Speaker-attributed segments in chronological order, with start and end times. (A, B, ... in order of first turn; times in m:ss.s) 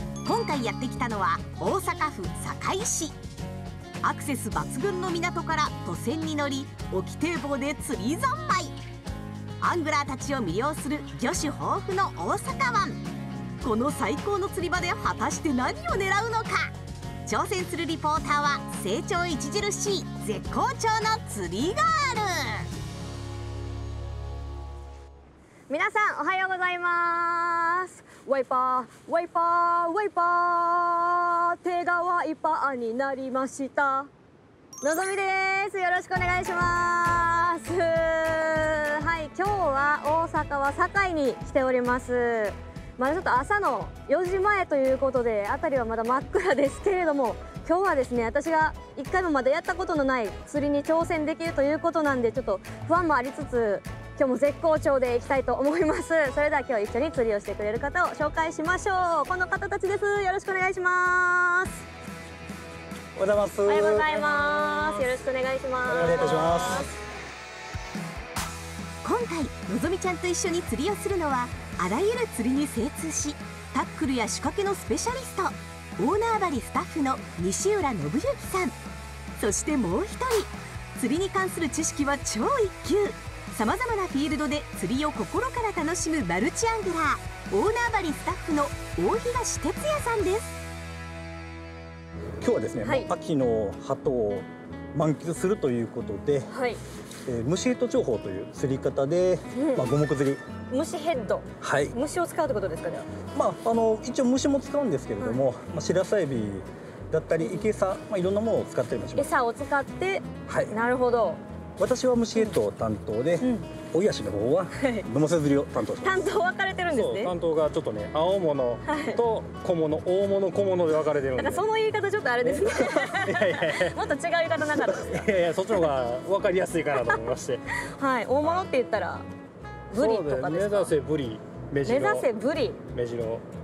0:00.2-0:03.2 A
0:04.0-0:08.8 A
0:09.6-0:13.0 A
0:13.6-0:16.7 A
0:17.2-0:22.7 A
0:25.7-0:34.1 B
0:34.8-1:01.8 B
1:03.2-1:03.7 C
1:03.4-1:05.2 D
1:03.7-1:06.9 B
1:05.9-1:06.9 D
1:05.9-1:06.9 C
1:09.0-1:18.8 A
1:19.4-1:30.6 A
1:32.4-1:36.5 C
1:32.8-1:33.1 B
1:36.5-1:36.8 B
1:37.2-1:40.4 C
1:39.6-1:39.9 B
1:40.7-1:43.1 B
1:41.6-1:41.9 C
1:43.3-1:49.3 C
1:47.4-1:47.7 B
1:49.2-1:51.4 B
1:50.4-1:50.8 C
1:51.8-1:56.2 C
1:53.4-1:53.7 B
1:54.8-1:55.0 B
1:56.0-1:57.3 B
1:56.9-2:01.7 D
1:58.9-1:59.2 B
2:01.4-2:05.3 B
2:02.4-2:04.0 D
2:04.8-2:07.7 D
2:07.8-2:09.3 B
2:09.9-2:10.9 B
2:09.9-2:12.3 D
2:11.8-2:12.8 B
2:12.9-2:13.4 D